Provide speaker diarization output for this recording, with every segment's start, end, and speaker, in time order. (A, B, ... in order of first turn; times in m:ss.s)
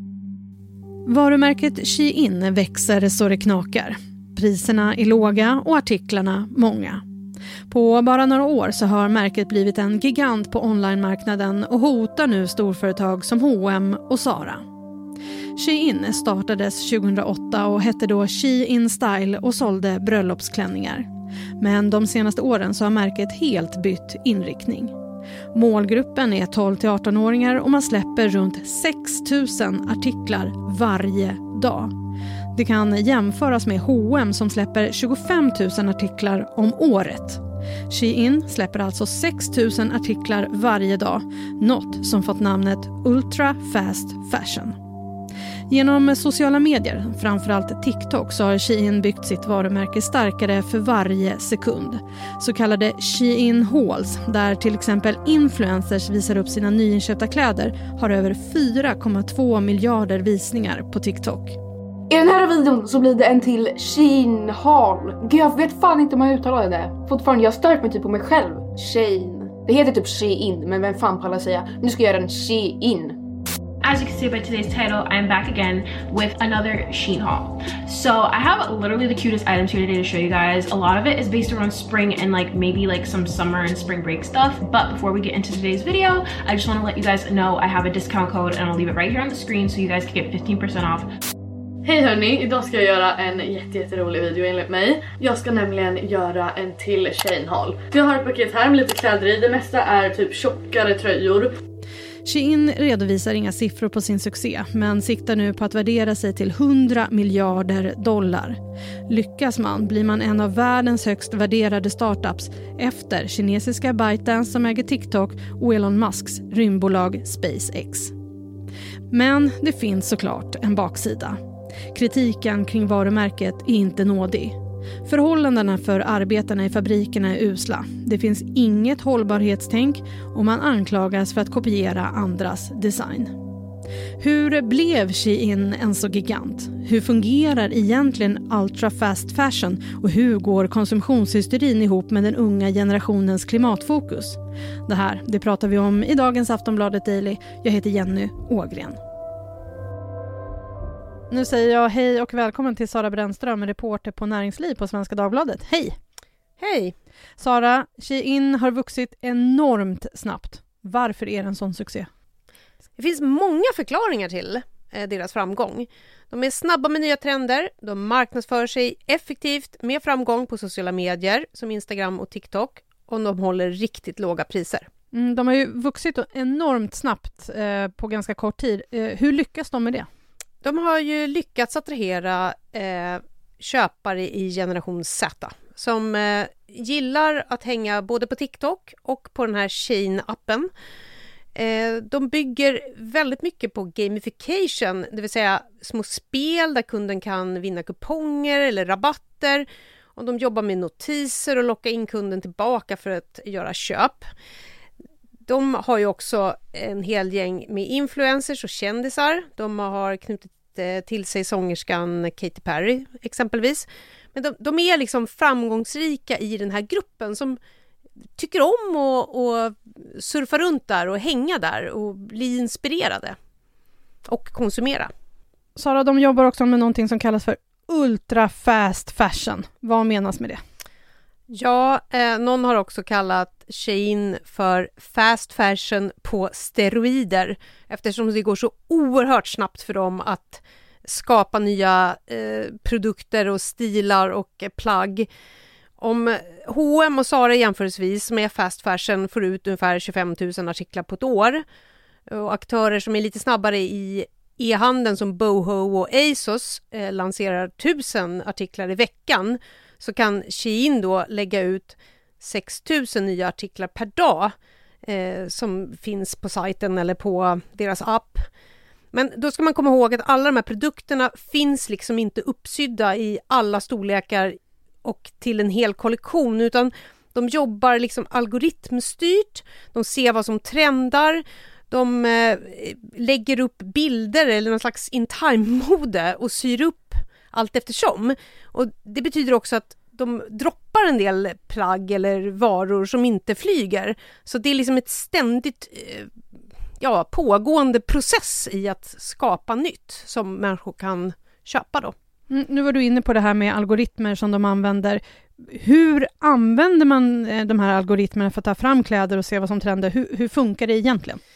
0:01.1-0:07.0 A
0:07.7-0:14.6 A
0:15.6-0:21.0 A
0:21.6-0:24.9 A
0:25.5-0:31.9 A
0:32.5-0:44.8 A
0:45.7-1:01.6 A
1:02.1-1:13.2 B
1:13.8-1:31.1 C
1:31.8-1:41.5 D
1:42.2-1:58.1 A
1:59.1-2:01.4 A
2:01.9-2:13.3 A
2:14.2-2:29.0 A
2:31.3-2:36.0 A
2:36.6-2:36.9 E
2:37.4-2:42.1 A
2:43.0-2:54.8 E
2:55.1-3:00.1 A
3:00.6-3:10.7 E
3:11.6-3:24.3 E
3:25.5-3:37.6 E
3:38.4-3:43.4 E
3:44.3-3:45.1 E
3:45.8-3:50.6 A
3:51.5-4:05.3 E
4:06.0-4:11.6 E
4:12.3-4:24.5 E
4:25.0-4:28.5 E
4:29.1-4:56.3 E
4:57.0-5:02.1 E
5:02.5-5:11.4 A